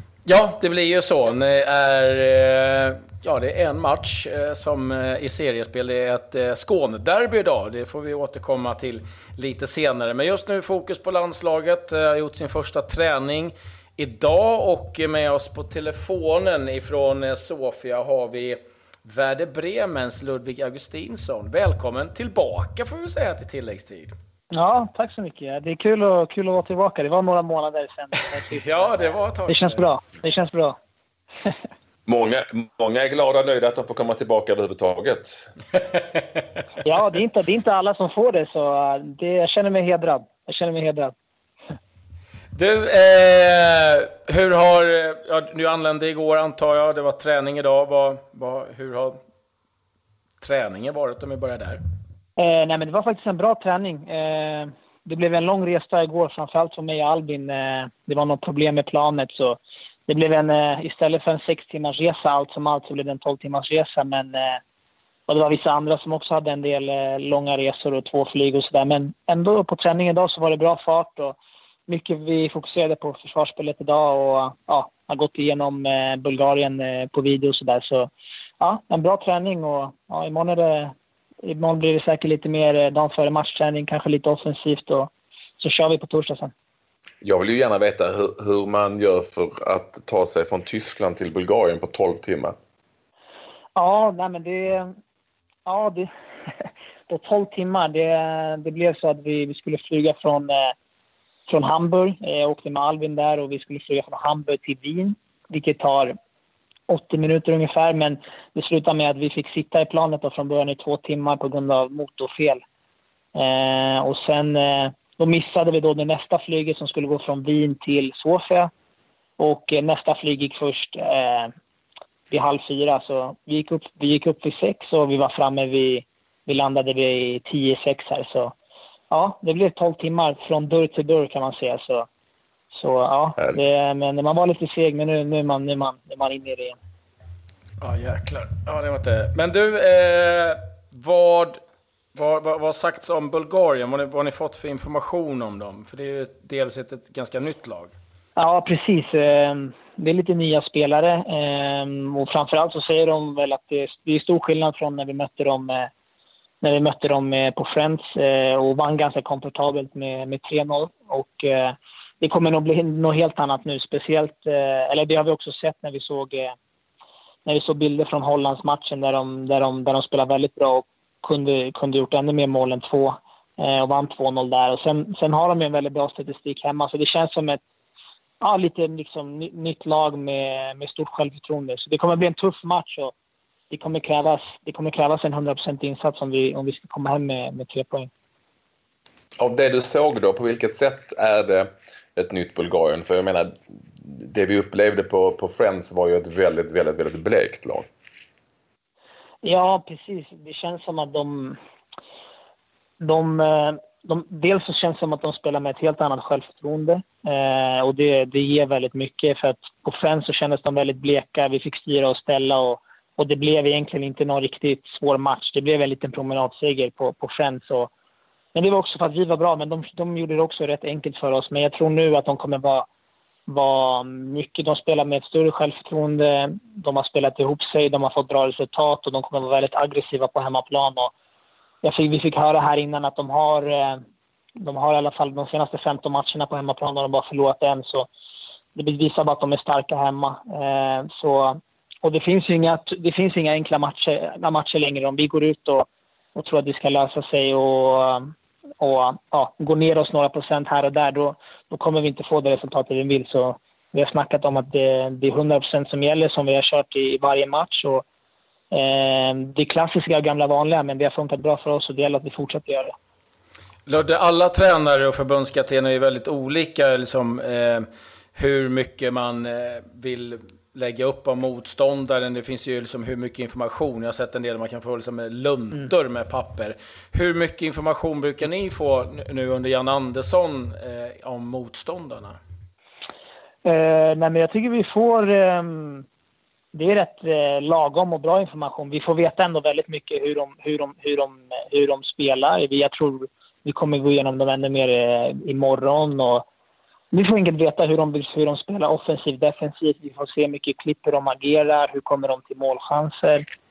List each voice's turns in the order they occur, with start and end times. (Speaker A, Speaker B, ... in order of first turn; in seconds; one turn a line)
Speaker A: 0.3-24.1
Speaker B: 24.5-30.8
Speaker A: 28.5-29.8
Speaker C: 32.1-35.5
Speaker B: 36.8-41.1
Speaker A: 42.5-49.2
Speaker A: 50.4-51.8
Speaker B: 52.4-64.6
Speaker B: 65.3-86.5
Speaker C: 87.2-92.5
Speaker B: 93.8-94.9
Speaker B: 95.7-96.1
Speaker B: 97.1-100.7
Speaker B: 101.5-106.2
Speaker B: 106.9-112.6
Speaker B: 113.3-118.7
Speaker B: 119.4-121.5
Speaker B: 122.3-128.5
Speaker B: 129.1-132.1
Speaker B: 132.7-136.8
Speaker A: 137.8-141.6
Speaker A: 142.2-147.9
Speaker B: 148.4-155.9
Speaker B: 156.6-166.5
Speaker B: 167.5-177.6
Speaker B: 178.4-183.1
Speaker B: 183.7-188.1
Speaker C: 189.4-197.9
Speaker B: 199.4-201.6
Speaker B: 203.0-217.9
Speaker B: 218.5-222.9
Speaker B: 223.5-231.1
Speaker B: 231.8-234.0
Speaker B: 234.6-238.1
Speaker B: 238.8-258.1
Speaker B: 258.7-262.9
Speaker A: 263.9-282.4
Speaker B: 283.6-286.1
Speaker B: 286.7-296.5
Speaker B: 297.1-303.4